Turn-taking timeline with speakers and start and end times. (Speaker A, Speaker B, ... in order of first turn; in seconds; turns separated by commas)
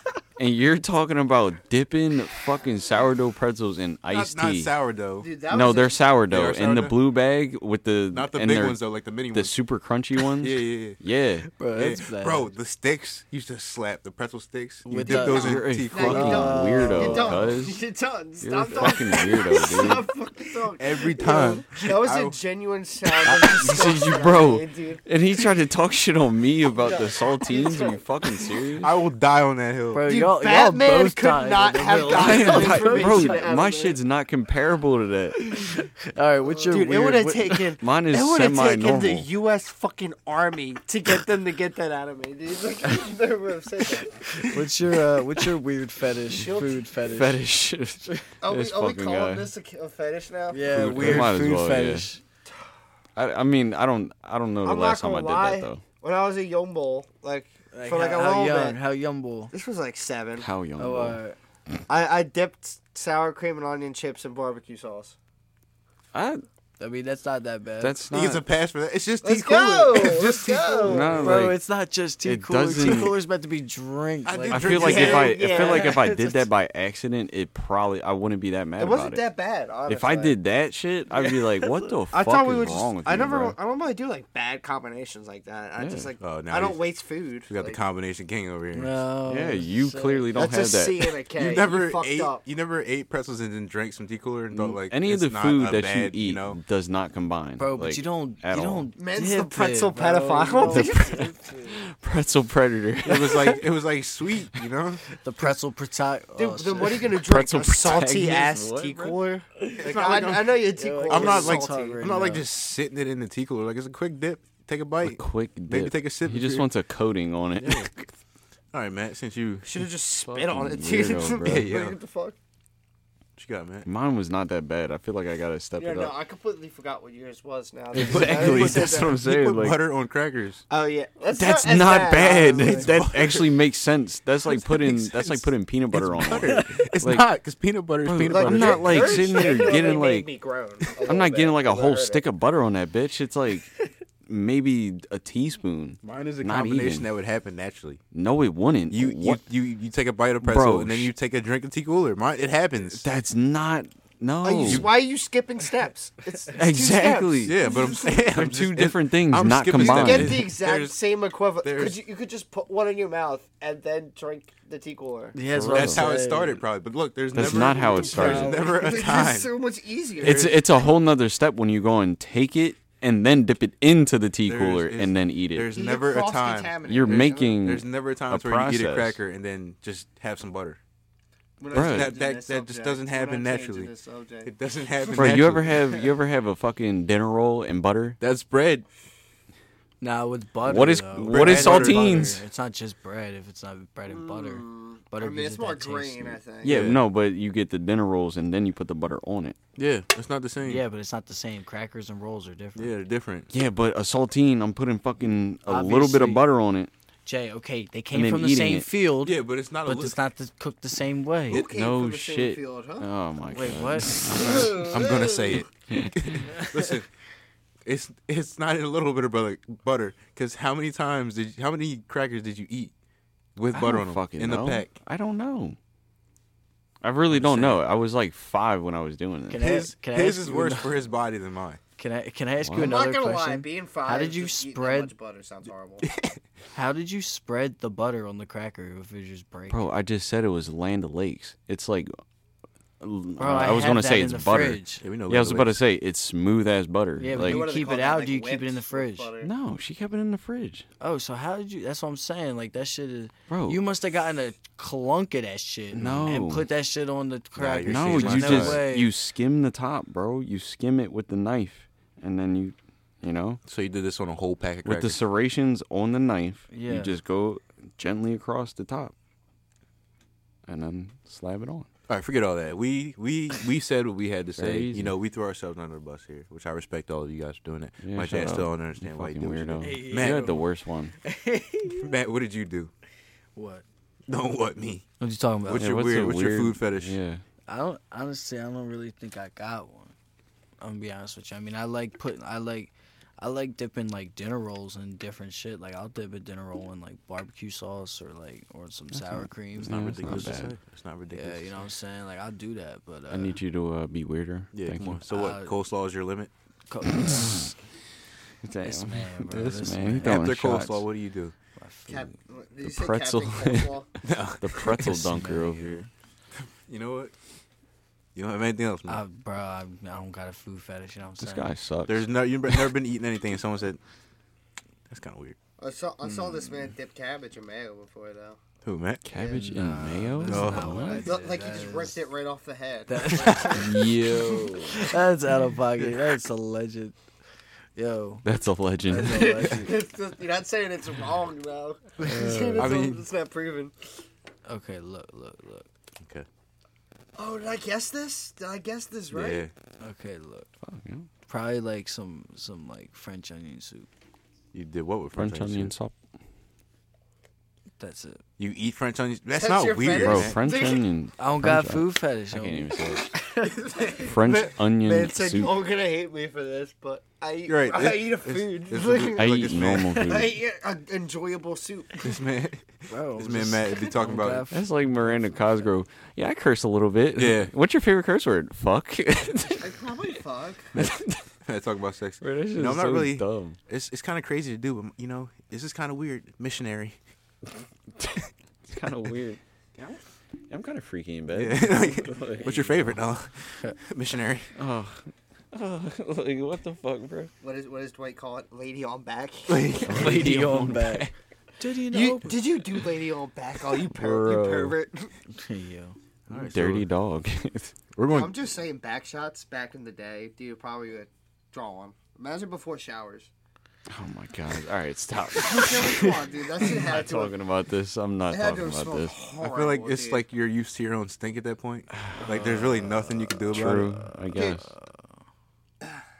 Speaker A: 0.4-4.7, Speaker B: 4.1-5.3, Speaker C: 5.2-6.0, Speaker A: 5.5-8.8, Speaker B: 6.3-7.0, Speaker B: 8.1-9.5, Speaker A: 9.3-11.5, Speaker B: 10.3-11.0, Speaker D: 11.6-12.5, Speaker B: 11.6-16.6, Speaker D: 14.8-17.5, Speaker A: 15.0-17.8, Speaker C: 15.9-25.5, Speaker A: 18.4-20.1, Speaker B: 20.8-22.4, Speaker A: 23.2-28.9, Speaker C: 26.7-28.6, Speaker B: 28.8-30.0, Speaker D: 29.9-33.5, Speaker C: 30.1-34.0, Speaker A: 32.0-35.8, Speaker D: 35.4-37.7, Speaker C: 36.5-44.5, Speaker A: 37.8-39.3, Speaker D: 44.4-47.4, Speaker C: 46.3-46.9, Speaker A: 47.1-49.5, Speaker C: 48.4-51.3, Speaker D: 50.5-52.2, Speaker A: 50.7-52.1, Speaker B: 50.7-51.1, Speaker A: 53.1-55.8, Speaker C: 54.6-58.8, Speaker D: 57.7-59.5, Speaker C: 59.5-60.5, Speaker A: 60.4-61.2, Speaker D: 60.8-61.4, Speaker C: 61.9-65.2, Speaker A: 66.1-66.4, Speaker D: 66.8-68.0, Speaker A: 67.8-68.4, Speaker B: 68.1-71.2, Speaker C: 69.2-71.5, Speaker A: 70.8-71.6, Speaker D: 70.9-76.3, Speaker A: 72.2-73.1, Speaker B: 74.2-75.4, Speaker C: 74.5-76.2, Speaker A: 74.5-79.2, Speaker C: 78.8-80.3, Speaker A: 79.8-83.5, Speaker C: 82.1-87.8, Speaker A: 85.8-86.1, Speaker B: 86.2-86.8, Speaker B: 87.5-89.0, Speaker D: 88.7-90.4, Speaker A: 89.2-91.1, Speaker C: 90.3-92.4, Speaker B: 91.3-96.6, Speaker A: 94.5-98.9, Speaker D: 97.6-101.8, Speaker C: 99.0-101.4, Speaker A: 100.6-103.6, Speaker B: 103.0-105.0, Speaker D: 105.2-107.1, Speaker C: 106.3-112.2, Speaker A: 107.1-109.2, Speaker D: 109.6-110.1, Speaker B: 109.8-116.7, Speaker D: 110.7-112.4, Speaker A: 115.0-118.1, Speaker B: 117.6-117.9, Speaker B: 118.7-119.8, Speaker C: 119.6-122.3, Speaker A: 120.2-121.7, Speaker B: 121.4-122.0, Speaker B: 123.4-123.9, Speaker A: 123.8-126.1, Speaker C: 125.8-129.1, Speaker A: 127.9-129.8, Speaker B: 128.0-130.6, Speaker C: 130.7-132.9, Speaker A: 131.3-137.3, Speaker D: 132.6-132.8, Speaker B: 132.7-133.6, Speaker B: 134.4-139.4, Speaker A: 138.0-140.3, Speaker C: 138.3-142.2, Speaker A: 141.0-147.1, Speaker B: 146.0-148.0, Speaker A: 148.1-149.4, Speaker B: 148.9-153.0, Speaker A: 150.4-151.1, Speaker A: 153.0-154.9, Speaker C: 154.4-158.1, Speaker A: 156.5-160.5, Speaker B: 157.4-160.9, Speaker C: 159.7-165.3, Speaker B: 161.6-162.0, Speaker D: 165.3-166.6, Speaker A: 165.5-166.1, Speaker B: 165.7-169.5, Speaker A: 167.3-168.6, Speaker C: 167.4-170.9, Speaker D: 167.9-168.6, Speaker B: 170.2-170.6, Speaker A: 170.2-175.7, Speaker B: 174.4-180.8, Speaker C: 175.7-177.6, Speaker A: 176.9-179.2, Speaker C: 181.6-184.5, Speaker A: 181.7-182.1, Speaker B: 181.7-183.9, Speaker B: 184.4-186.1, Speaker A: 185.1-188.2, Speaker B: 188.2-188.8, Speaker D: 190.0-196.4, Speaker A: 190.7-192.4, Speaker B: 191.2-192.4, Speaker C: 194.1-196.8, Speaker B: 196.6-197.0, Speaker A: 196.6-199.6, Speaker B: 199.8-200.8, Speaker D: 200.6-202.9, Speaker B: 202.8-203.5, Speaker A: 203.5-206.9, Speaker D: 205.7-206.4, Speaker D: 207.2-211.6, Speaker A: 208.1-208.9, Speaker B: 209.2-210.2, Speaker C: 211.5-213.1, Speaker A: 211.5-215.1, Speaker D: 213.5-214.1, Speaker C: 214.3-215.6, Speaker B: 214.5-217.1, Speaker A: 215.9-216.4, Speaker B: 217.8-222.9, Speaker B: 223.6-224.9, Speaker A: 223.7-225.8, Speaker A: 227.0-229.7, Speaker B: 227.3-227.8, Speaker D: 229.5-231.0, Speaker B: 229.6-231.8, Speaker D: 232.0-235.1, Speaker A: 232.6-233.0, Speaker C: 232.8-236.1, Speaker B: 236.0-236.4, Speaker D: 236.7-239.8, Speaker A: 239.7-242.1, Speaker A: 243.0-247.6, Speaker D: 243.4-245.0, Speaker B: 245.0-245.8, Speaker D: 247.2-249.3, Speaker C: 247.3-249.5, Speaker A: 249.4-250.9, Speaker D: 251.0-259.1, Speaker A: 253.5-253.8, Speaker A: 255.9-256.7, Speaker B: 257.6-258.8, Speaker A: 257.8-263.6, Speaker B: 263.6-265.2, Speaker A: 264.8-269.1, Speaker D: 266.7-267.1, Speaker A: 270.6-271.9, Speaker B: 272.1-280.6, Speaker A: 274.6-275.1, Speaker A: 278.0-281.1, Speaker D: 279.8-280.6, Speaker D: 281.2-282.1, Speaker B: 281.8-282.9, Speaker D: 283.5-283.8, Speaker B: 284.3-285.0, Speaker D: 285.2-285.9, Speaker B: 285.6-287.2, Speaker A: 285.7-287.4, Speaker D: 287.7-290.1, Speaker D: 290.8-300.6, Speaker A: 299.1-300.7, Speaker B: 299.8-301.8, Speaker D: 301.3-303.6, Speaker A: 303.3-305.2, Speaker B: 304.7-306.5, Speaker D: 305.3-305.8, Speaker D: 306.9-307.7, Speaker A: 307.1-307.7, Speaker A: 308.6-311.0, Speaker D: 308.8-310.4, Speaker B: 309.5-311.5, Speaker D: 311.8-312.3, Speaker C: 312.1-314.1, Speaker A: 312.8-316.0, Speaker B: 314.2-314.8, Speaker D: 315.0-316.1, Speaker B: 316.6-317.3, Speaker B: 318.3-319.2, Speaker D: 319.1-321.7, Speaker A: 321.4-322.9, Speaker B: 322.1-324.0, Speaker B: 325.1-325.6, Speaker C: 325.8-328.6, Speaker B: 328.8-329.2, Speaker A: 329.2-331.3, Speaker D: 329.4-332.1, Speaker B: 330.4-331.1, Speaker C: 331.0-334.9, Speaker D: 333.1-334.2, Speaker B: 333.3-333.8, Speaker A: 333.7-335.0, Speaker D: 334.9-337.1, Speaker D: 337.9-338.4, Speaker A: 338.4-339.7, Speaker D: 339.1-339.9, Speaker C: 339.2-344.1, Speaker D: 342.2-342.9, Speaker B: 342.8-343.2, Speaker D: 344.6-345.9, Speaker B: 346.2-346.5, Speaker C: 347.4-349.6, Speaker B: 349.3-349.7, Speaker D: 350.0-350.7, Speaker A: 350.8-351.3, Speaker D: 351.5-354.1, Speaker B: 354.7-355.9, Speaker A: 355.3-356.1, Speaker D: 358.0-358.4, Speaker B: 358.6-360.6, Speaker C: 359.6-361.0, Speaker A: 360.1-363.4, Speaker D: 361.4-363.0, Speaker C: 363.4-372.4, Speaker A: 364.2-365.7, Speaker B: 367.6-370.3, Speaker A: 369.4-370.6, Speaker B: 372.2-374.6, Speaker D: 373.1-375.4, Speaker A: 374.7-380.2, Speaker B: 377.4-377.7, Speaker C: 379.8-380.9, Speaker A: 380.9-381.4, Speaker B: 381.6-387.1, Speaker A: 382.4-383.8, Speaker A: 388.2-389.6, Speaker A: 390.7-393.2, Speaker B: 391.5-394.7, Speaker A: 394.8-397.5, Speaker C: 397.6-400.1, Speaker B: 399.7-401.0, Speaker A: 400.1-401.3, Speaker D: 400.1-402.6, Speaker C: 402.1-405.3, Speaker A: 403.9-404.9, Speaker D: 405.5-406.2, Speaker B: 406.5-407.1, Speaker A: 406.5-407.9, Speaker B: 408.1-408.5, Speaker C: 408.3-413.5, Speaker A: 414.1-419.3, Speaker C: 415.6-417.6, Speaker C: 418.5-420.4, Speaker B: 419.6-424.1, Speaker A: 422.1-422.8, Speaker D: 422.8-425.2, Speaker A: 423.7-424.9, Speaker C: 424.5-424.8